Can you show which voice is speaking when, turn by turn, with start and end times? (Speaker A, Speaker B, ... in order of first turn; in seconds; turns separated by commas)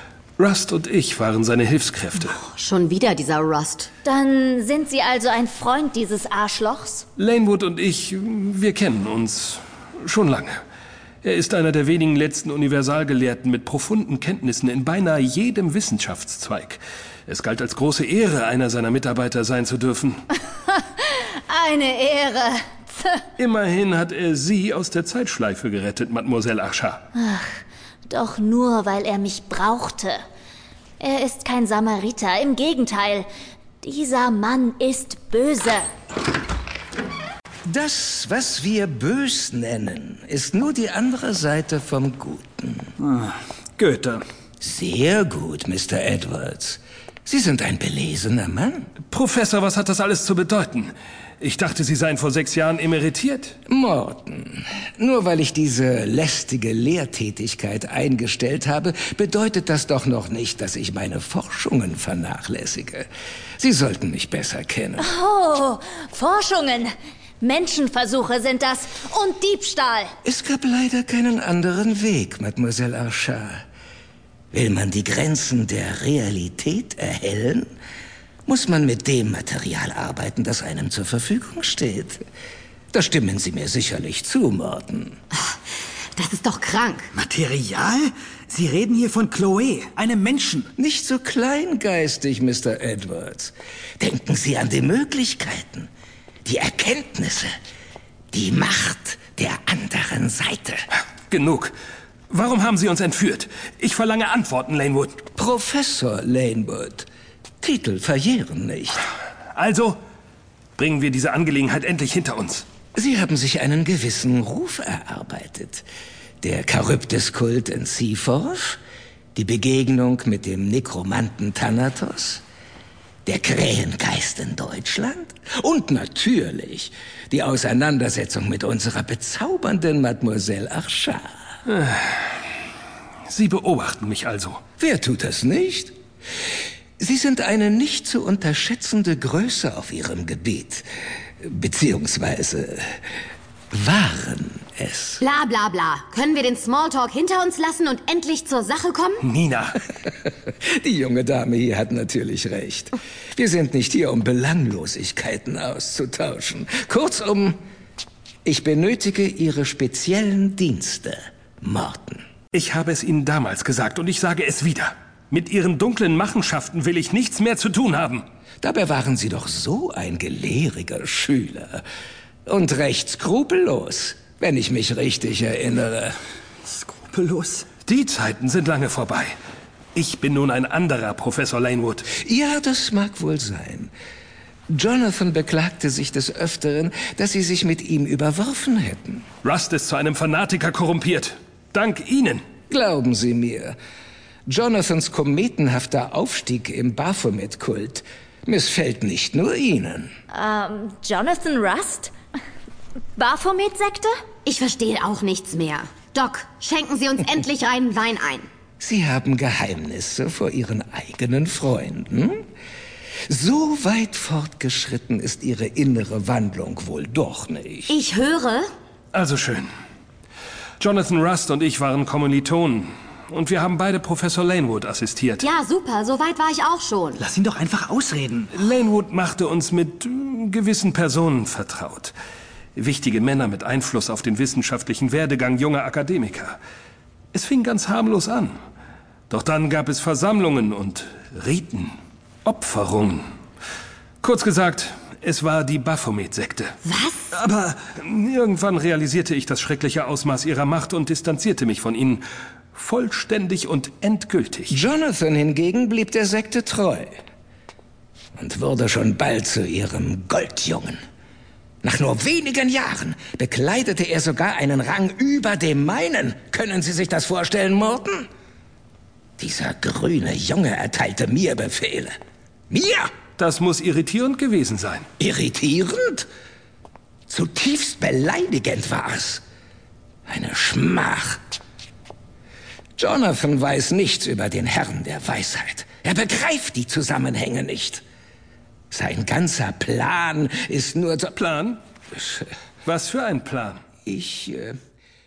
Speaker A: 0.4-2.4, Speaker B: 2.4-3.9, Speaker C: 4.0-7.0, Speaker A: 7.2-10.6, Speaker A: 11.2-20.2, Speaker C: 20.7-23.2, Speaker A: 23.4-27.0, Speaker C: 27.1-27.5, Speaker C: 28.1-30.2, Speaker C: 31.0-33.3, Speaker C: 33.8-35.9, Speaker D: 37.6-42.9, Speaker E: 43.0-44.2, Speaker D: 44.6-48.9, Speaker A: 49.1-53.6, Speaker D: 53.7-63.1, Speaker D: 63.6-65.1, Speaker C: 65.0-70.1, Speaker D: 70.2-73.6, Speaker D: 74.5-77.7, Speaker D: 78.5-82.2, Speaker D: 82.9-85.2, Speaker B: 85.3-85.6, Speaker B: 86.1-87.1, Speaker E: 87.1-90.7, Speaker D: 90.8-95.9, Speaker D: 96.4-97.5, Speaker D: 98.3-100.8, Speaker A: 101.3-101.7, Speaker A: 102.3-105.2, Speaker D: 105.4-107.1, Speaker D: 107.6-109.1, Speaker A: 109.5-110.0, Speaker A: 110.8-112.6, Speaker D: 112.9-115.8, Speaker D: 116.4-118.8, Speaker D: 119.3-122.4, Speaker D: 123.2-131.3, Speaker A: 131.7-132.2, Speaker A: 133.3-134.6, Speaker D: 134.8-135.9, Speaker D: 137.0-140.8, Speaker D: 141.4-143.0, Speaker D: 143.7-145.2, Speaker B: 145.2-149.2, Speaker A: 149.2-149.8, Speaker D: 150.2-157.6, Speaker D: 158.4-162.2, Speaker A: 162.5-168.2, Speaker D: 168.6-171.8, Speaker D: 172.4-176.2, Speaker E: 176.7-177.7, Speaker A: 177.8-179.3, Speaker A: 179.9-182.1, Speaker D: 182.1-183.9, Speaker D: 184.7-189.2, Speaker A: 189.4-192.4, Speaker D: 192.7-193.8, Speaker D: 194.5-200.1, Speaker C: 200.3-202.1, Speaker C: 203.2-204.1, Speaker B: 204.4-208.5, Speaker D: 208.8-212.4, Speaker D: 213.3-217.9, Speaker B: 217.9-218.7, Speaker A: 219.1-219.7, Speaker A: 220.8-225.4, Speaker B: 225.4-227.2, Speaker E: 227.2-228.5, Speaker A: 228.5-232.1, Speaker A: 232.8-236.6, Speaker A: 237.3-238.6, Speaker A: 239.3-243.2, Speaker A: 244.2-246.8, Speaker B: 246.8-247.3, Speaker A: 247.3-252.2, Speaker A: 252.7-254.8, Speaker D: 254.7-257.1, Speaker D: 258.4-261.0, Speaker D: 261.8-268.3, Speaker D: 269.4-272.1, Speaker D: 272.7-273.1, Speaker A: 273.4-275.1, Speaker D: 275.2-276.3, Speaker D: 277.3-279.4, Speaker D: 280.3-281.4, Speaker D: 283.0-288.0, Speaker D: 288.9-291.3, Speaker A: 291.3-291.8, Speaker A: 292.8-293.8, Speaker D: 294.0-294.8